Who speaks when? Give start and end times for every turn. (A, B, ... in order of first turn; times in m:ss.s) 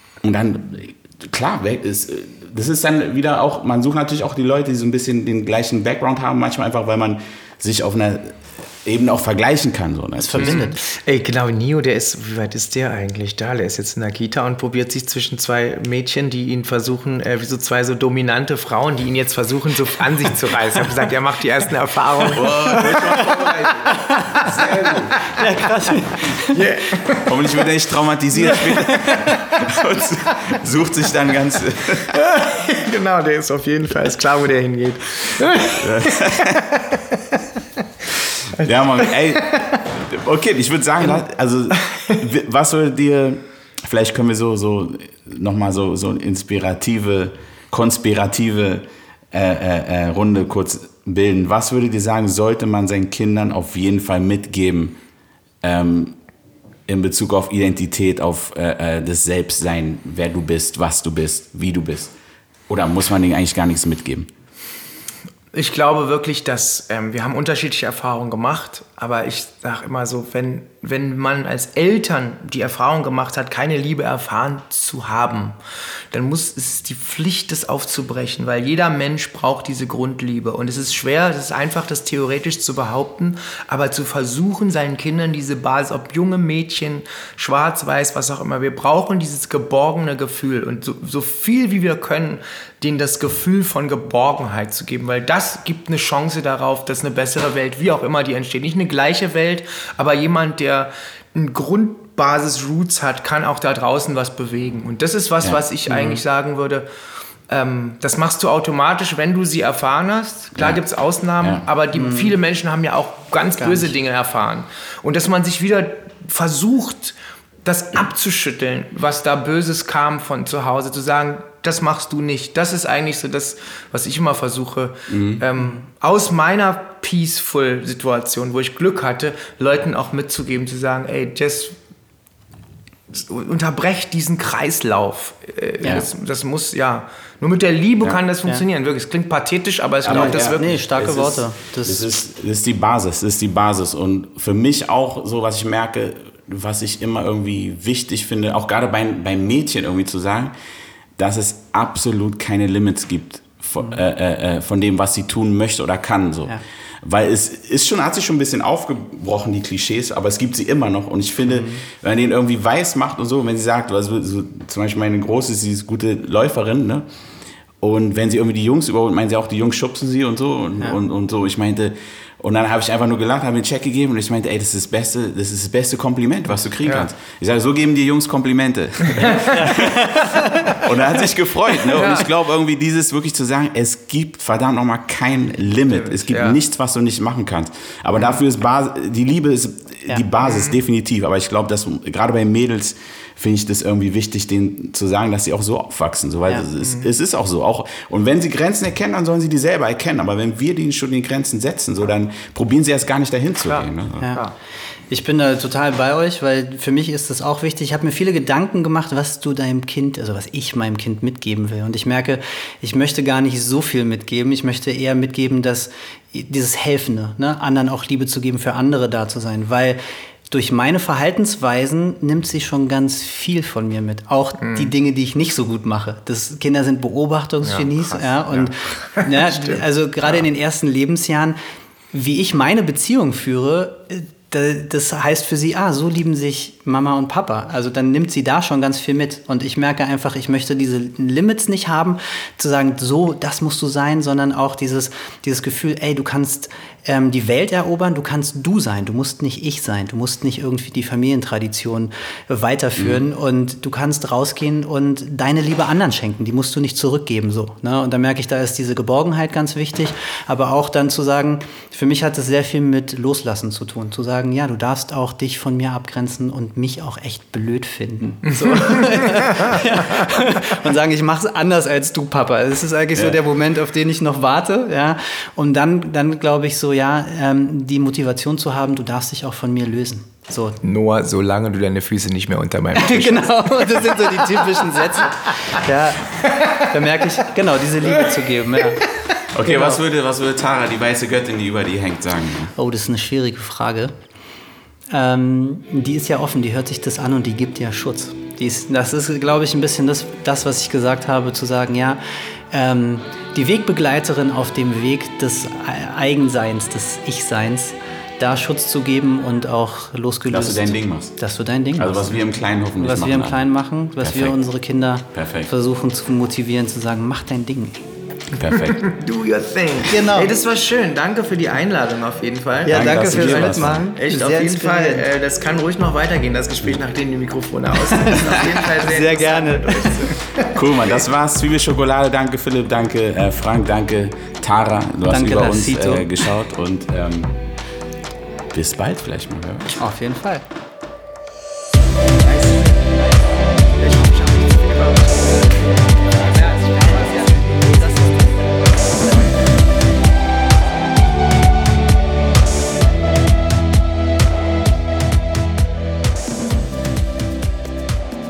0:00.2-0:10.6 A
0:10.2-0:10.8 B
0:10.4-0:23.2 C
0:22.3-0:25.3 A
0:22.7-0:24.7 B
0:24.4-0:25.3 C
0:25.3-0:26.7 B
0:26.5-0:27.3 C
0:27.2-0:32.2 A
0:28.4-0:29.6 C
0:28.8-0:29.2 B
0:32.1-0:37.4 C
0:35.7-0:36.7 A
0:38.5-0:55.0 A
0:38.5-0:39.7 C
0:41.8-0:42.2 C
0:55.6-0:56.2 A
0:56.9-1:02.1 A
1:02.7-1:04.3 A
1:05.5-1:15.6 C
1:16.1-1:46.8 C
1:45.9-1:46.2 B
1:47.5-2:11.8 C
1:51.4-1:51.6 A
1:51.9-1:52.3 B
1:53.6-1:53.9 B
2:05.1-2:05.4 A
2:13.1-2:20.8 C
2:20.0-2:30.5 A
2:20.0-2:22.1 B
2:31.2-2:47.0 A
2:41.4-2:41.8 B
2:47.8-3:24.3 A
2:59.0-2:59.6 C
2:59.5-3:00.9 B
3:01.9-3:02.3 C
3:05.7-3:06.6 C
3:10.4-3:10.8 C
3:16.8-3:17.1 C
3:23.7-3:24.5 C
3:25.1-3:40.0 B
3:40.5-3:51.6 B
3:44.6-3:44.9 C
3:47.6-3:50.4 C
3:52.1-4:40.8 B
4:28.6-4:29.7 C
4:40.8-4:44.9 C
4:42.9-4:49.0 B
4:46.4-4:46.9 C
4:49.1-4:49.4 C
4:49.5-4:52.7 A
4:49.6-4:50.0 B
4:52.8-4:54.1 B
4:55.1-5:12.4 B
5:10.5-5:11.4 A
5:12.0-5:13.7 A
5:13.0-5:18.0 B
5:14.2-5:14.6 A
5:15.3-5:15.7 A
5:18.5-5:19.1 A
5:18.7-5:30.4 C
5:20.0-5:20.5 B
5:22.8-5:25.2 B
5:22.9-5:24.0 A
5:28.1-5:30.6 B
5:30.7-5:37.6 A
5:35.2-5:36.4 B
5:38.7-5:40.0 A
5:40.0-5:40.6 B
5:42.4-5:48.5 C